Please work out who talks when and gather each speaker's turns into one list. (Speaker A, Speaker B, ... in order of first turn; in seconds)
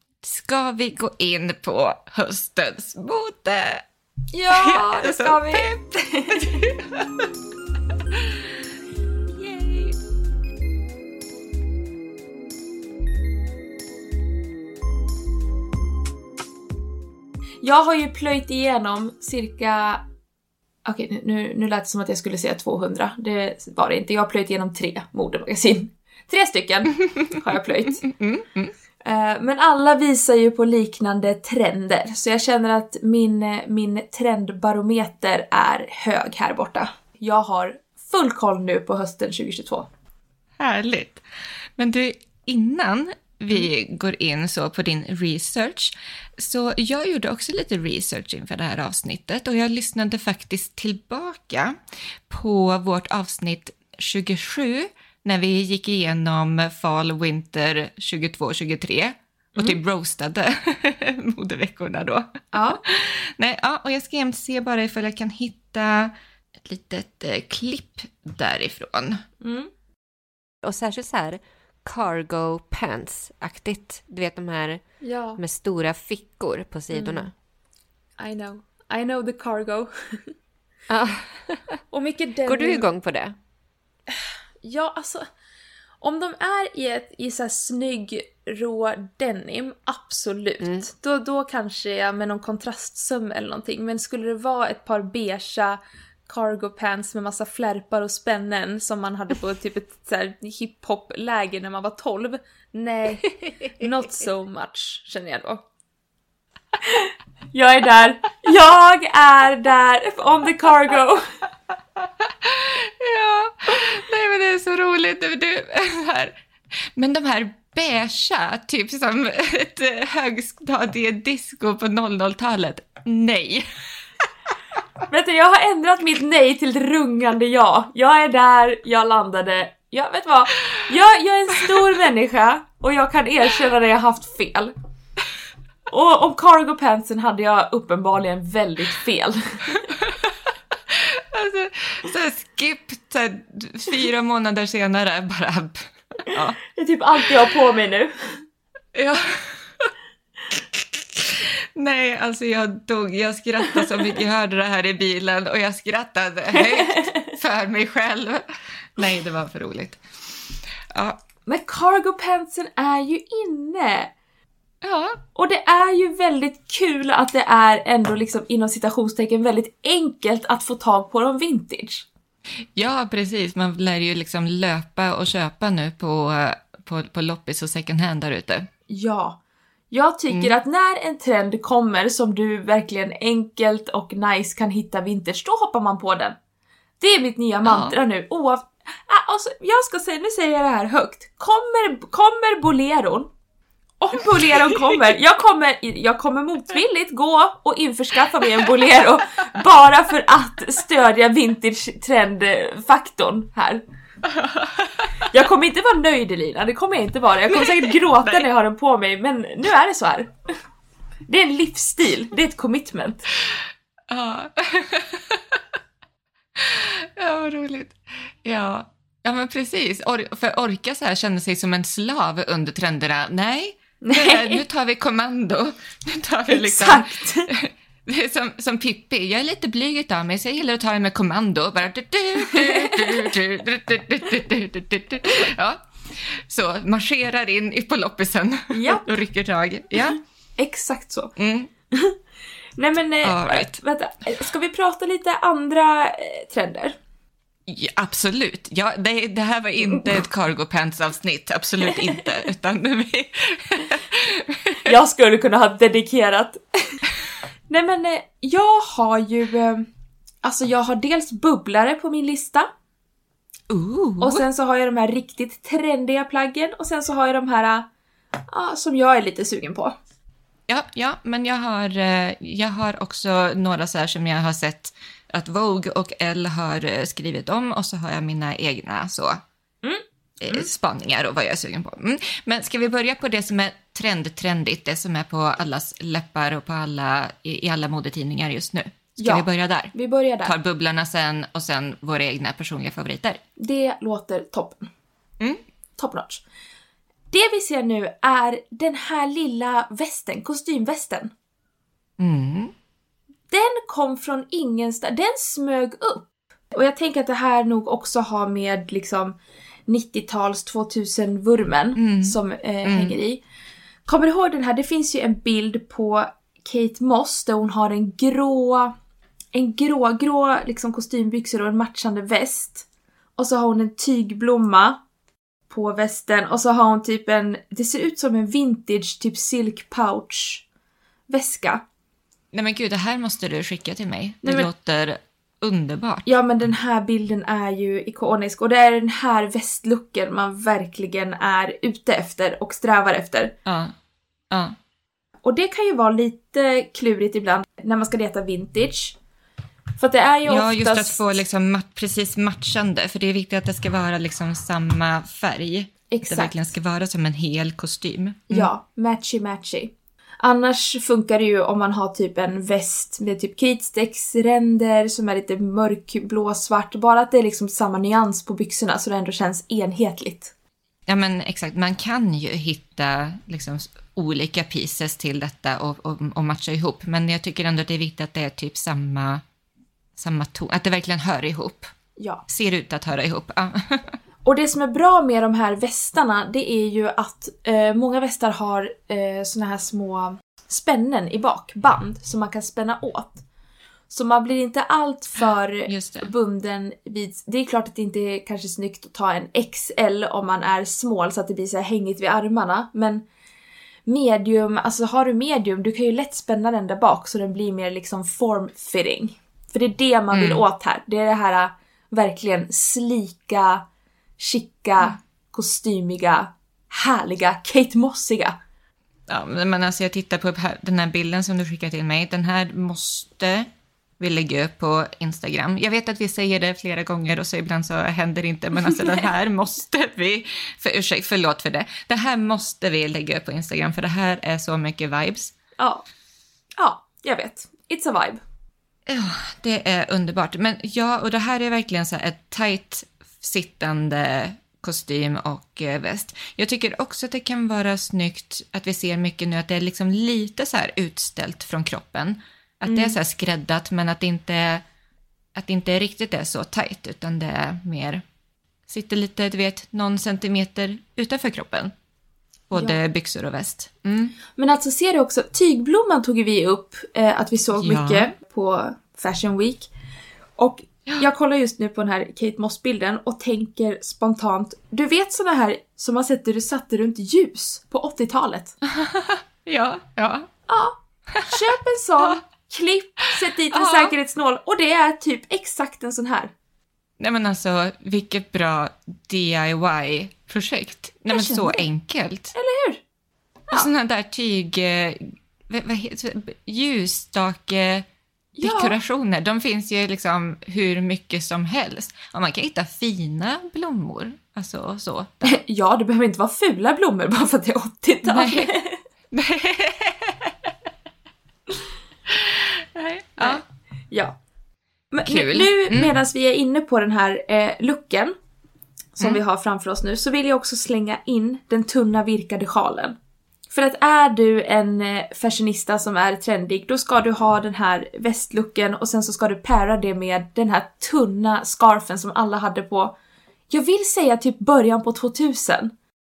Speaker A: 0.2-3.8, 4.5-7.2, 8.1-8.4, 9.3-9.9, 28.0-28.7, 40.6-41.2, 41.8-62.3, 62.8-69.2, 112.2-123.7, 140.9-146.6, 148.9-149.9, 150.7-158.4, 158.9-160.0, 160.9-161.2, 164.8-165.2, 172.8-178.7, 187.6-187.9, 198.6-198.8, 204.3-205.1, 207.5-208.4, 214.1-215.6, 216.5-240.2, 241.4-241.7, 243.2-243.8, 247.7-254.9, 263.7-264.4, 270.7-279.4, 280.4-289.9, 290.4-293.4, 302.2-302.7, 311.9-313.1, 332.5-336.3, 343.6-343.9, 344.5-344.8, 350.4-358.7, 371.1-379.4, 380.2-381.9, 382.5-384.2, 395.9-396.3, 410.3-410.6, 419.3-423.7, 424.2-435.5, 439.1-454.8, 455.5-458.2, 458.9-461.9, 462.7-464.3, 467.8-468.3, 478.9-480.5, 481.3-481.6, 483.7-484.1, 487.2-492.5, 493.7-498.1, 498.6-505.6, 508.2-508.7, 509.3-510.7, 512.3-513.6, 515.2-516.1
Speaker B: 4.3-6.7, 17.6-20.0, 20.8-28.1, 29.0-39.9, 62.5-62.8, 69.4-69.7, 75.0-75.4, 76.9-77.3, 78.2-80.3, 81.9-82.9, 84.6-85.3, 86.0-105.6, 106.8-111.2, 125.1-134.7, 135.9-139.9, 146.7-148.4, 156.5-157.3, 161.5-164.1, 165.3-172.1, 178.9-179.4, 179.9-186.3, 187.0-193.3, 194.0-203.8, 205.2-210.3, 211.3-213.3, 224.0-224.6, 226.5-227.5, 232.5-233.3, 238.7-239.2, 240.6-241.3, 242.8-247.0, 254.8-257.0, 257.7-259.9, 260.4-262.7, 264.2-267.9, 268.5-269.9, 279.8-280.7, 289.2-290.5, 293.6-294.9, 296.0-296.4, 297.3-301.3, 303.5-309.4, 309.9-313.4, 314.1-318.9, 319.5-322.9, 323.4-325.0, 325.7-330.6, 331.3-331.8, 334.4-334.7, 336.2-343.5, 345.4-349.1, 350.0-351.2, 356.1-356.5, 358.5-370.5, 382.2-382.4, 384.4-393.4, 394.1-403.2, 404.1-413.8, 414.4-418.5, 435.8-436.0, 436.8-438.4, 452.9-453.2, 464.6-469.9, 470.6-478.8, 480.7-486.5, 491.3-491.9, 492.5-493.0, 498.6-498.9, 505.4-509.0, 513.4-514.4, 515.1-518.3, 519.1-523.1, 523.7-533.1, 533.7-535.9
Speaker C: 70.6-74.8, 75.4-77.3, 80.9-81.8, 82.5-83.3, 90.6-90.8